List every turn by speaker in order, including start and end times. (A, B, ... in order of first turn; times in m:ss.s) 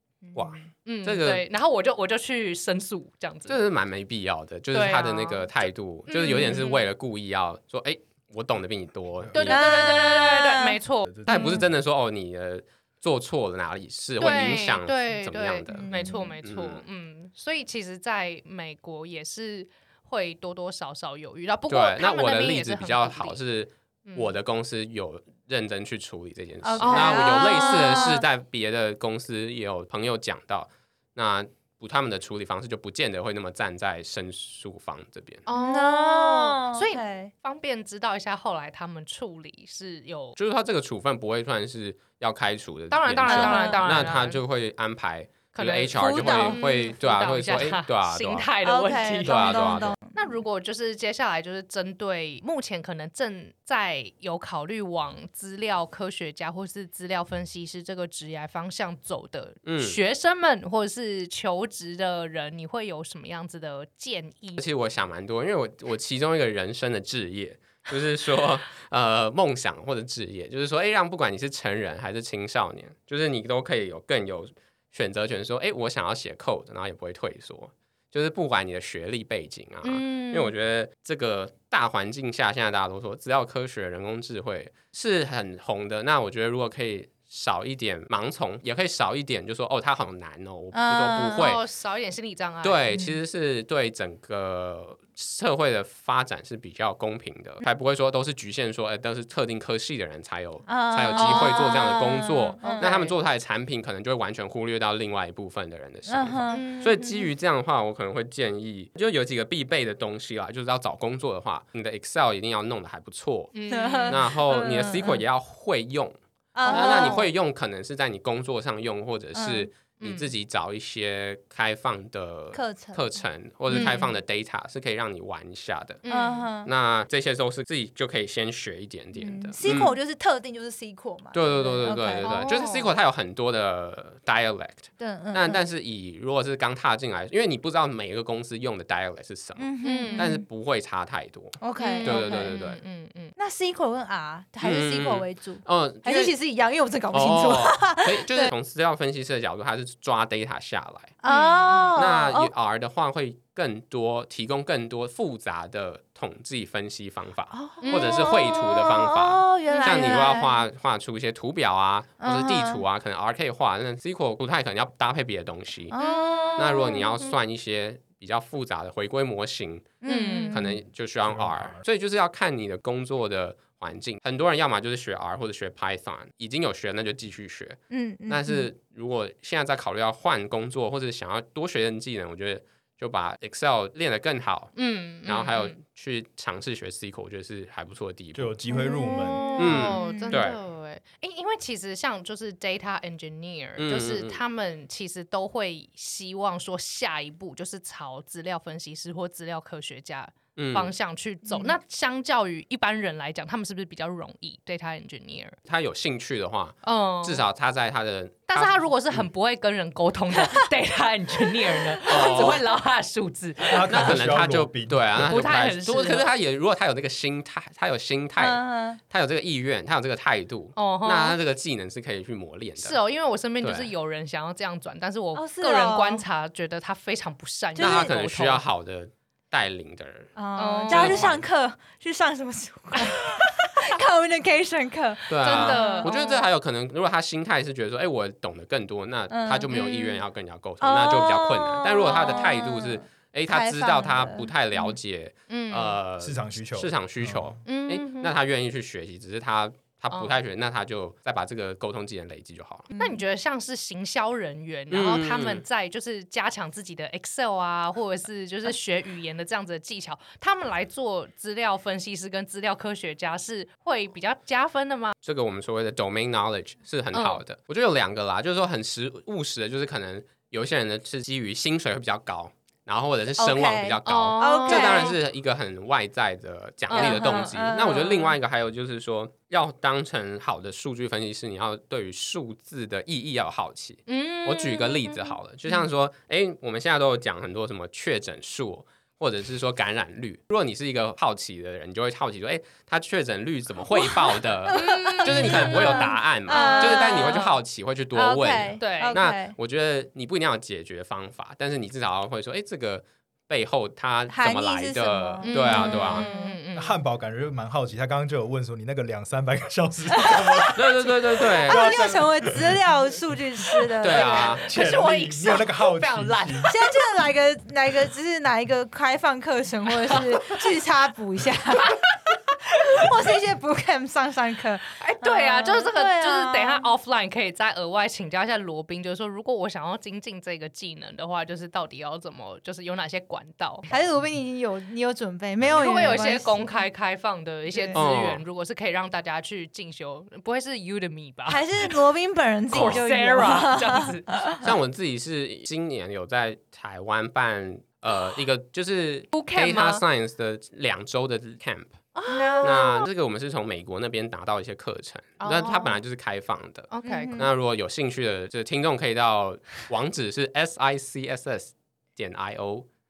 0:00.3-0:01.4 A
0:00.8-0:03.6 B
0:03.5-0:10.0 A
0:04.7-0:06.8 B
0:09.2-0:09.5 C
0:09.3-0:11.7 B
0:09.4-0:10.8 D
0:11.2-0:15.9 A
0:14.2-0:23.4 B
0:15.9-0:16.3 D
0:16.4-0:16.8 A
0:21.7-0:35.4 A
0:24.1-0:24.3 B
0:26.6-0:28.2 D
0:26.8-0:28.1 B
0:35.4-0:40.4 B
0:35.5-0:37.3 D
0:40.4-0:48.5 A
0:42.9-0:44.4 B
0:43.2-0:44.0 D
0:45.5-1:04.6 B
0:45.9-0:46.6 D
0:48.6-0:50.3 D
0:49.2-0:50.0 A
0:59.6-1:00.0 A
1:04.6-1:31.6 A
1:19.8-1:20.5 B
1:30.7-1:31.5 D
1:31.3-1:32.8 B
1:32.6-1:53.5 A
1:32.9-1:33.2 D
1:40.7-1:43.1 D
1:41.1-1:41.8 B
1:42.6-1:43.1 B
1:46.1-1:46.7 D
1:46.5-1:47.3 B
1:53.5-1:54.2 B
1:53.7-1:55.2 D
1:54.1-1:56.2 A
1:56.5-1:57.3 D
1:56.6-1:57.3 B
1:56.7-2:06.0 A
1:59.3-1:59.7 D
2:00.0-2:00.3 B
2:02.5-2:03.0 D
2:03.7-2:04.1 B
2:06.0-2:06.5 B
2:06.1-2:06.7 D
2:06.6-2:09.9 A
2:09.2-2:12.6 D
2:11.3-2:22.8 A
2:12.2-2:12.9 B
2:15.0-2:15.6 D
2:19.6-2:20.4 D
2:19.8-2:20.3 B
2:21.6-2:22.6 D
2:21.8-2:23.3 B
2:23.4-2:28.5 D
2:24.6-2:26.3 A
2:27.1-2:31.2 A
2:31.2-2:32.5 D
2:31.2-2:32.0 B
2:31.9-2:46.0 A
2:37.5-2:40.6 D
2:37.8-2:38.3 B
2:39.7-2:40.2 B
2:42.2-2:42.8 D
2:45.9-2:47.1 D
2:45.9-2:47.3 B
2:46.6-2:50.0 A
2:50.0-2:50.8 D
2:50.0-2:50.6 B
2:50.5-3:04.7 A
2:51.2-2:51.8 C
2:57.9-2:58.7 D
3:04.8-3:05.8 B
3:05.2-3:08.5 A
3:08.3-3:09.4 C
3:08.7-3:10.4 D
3:08.7-3:25.6 B
3:09.6-3:10.6 A
3:13.8-3:14.4 A
3:20.6-3:20.9 A
3:21.4-3:21.7 D
3:25.6-3:29.2 A
3:26.8-3:27.4 B
3:28.5-3:34.1 B
3:30.4-3:30.7 D
3:31.7-3:32.6 D
3:32.0-3:32.6 A
3:33.6-3:35.3 C
3:33.9-3:43.0 A
3:35.2-3:36.3 B
3:38.4-3:39.0 D
3:40.8-3:41.4 B
3:42.8-3:48.6 B
3:43.6-3:43.9 A
3:45.3-3:46.2 D
3:47.8-3:48.1 D
3:47.8-3:50.3 A
3:50.4-3:56.2 D
3:50.6-3:51.3 B
3:50.9-3:51.4 A
3:55.3-4:12.9 A
3:55.4-3:56.4 B
3:59.3-3:59.7 D
3:59.7-4:00.2 B
4:00.8-4:05.0 D
4:05.5-4:06.0 B
4:06.2-4:07.5 C
4:07.6-4:08.3 B
4:12.9-4:13.2 D
4:13.0-4:25.1 B
4:14.9-4:15.6 A
4:25.2-5:06.3 A
4:27.1-4:27.4 B
4:33.4-4:35.1 D
4:34.0-4:35.2 B
4:36.9-4:38.0 B
4:36.9-4:38.3 D
4:44.1-4:45.4 B
4:53.9-4:57.5 D
4:54.7-4:57.6 B
4:58.1-4:59.6 D
4:58.8-4:59.2 B
5:04.3-5:06.6 D
5:05.4-5:06.9 B
5:06.7-5:12.8 C
5:10.2-5:10.8 D
5:10.7-5:12.2 A
5:11.6-5:14.7 D
5:13.6-5:14.0 C
5:14.0-5:14.6 A
5:14.3-5:16.7 B
5:14.6-5:16.7 C
5:16.7-5:22.1 D
5:22.7-5:26.9 D
5:25.0-5:33.9 B
5:33.9-5:36.7 D
5:35.7-5:42.0 B
5:37.9-5:38.4 A
5:41.5-5:44.6 D
5:42.7-5:43.0 A
5:42.7-5:44.3 B
5:44.6-5:51.9 A
5:49.3-5:50.0 B
5:52.1-5:53.1 B
5:52.3-5:52.9 D
5:52.6-6:02.8 A
5:55.4-5:56.0 B
5:56.9-5:57.5 B
5:57.0-5:57.5 D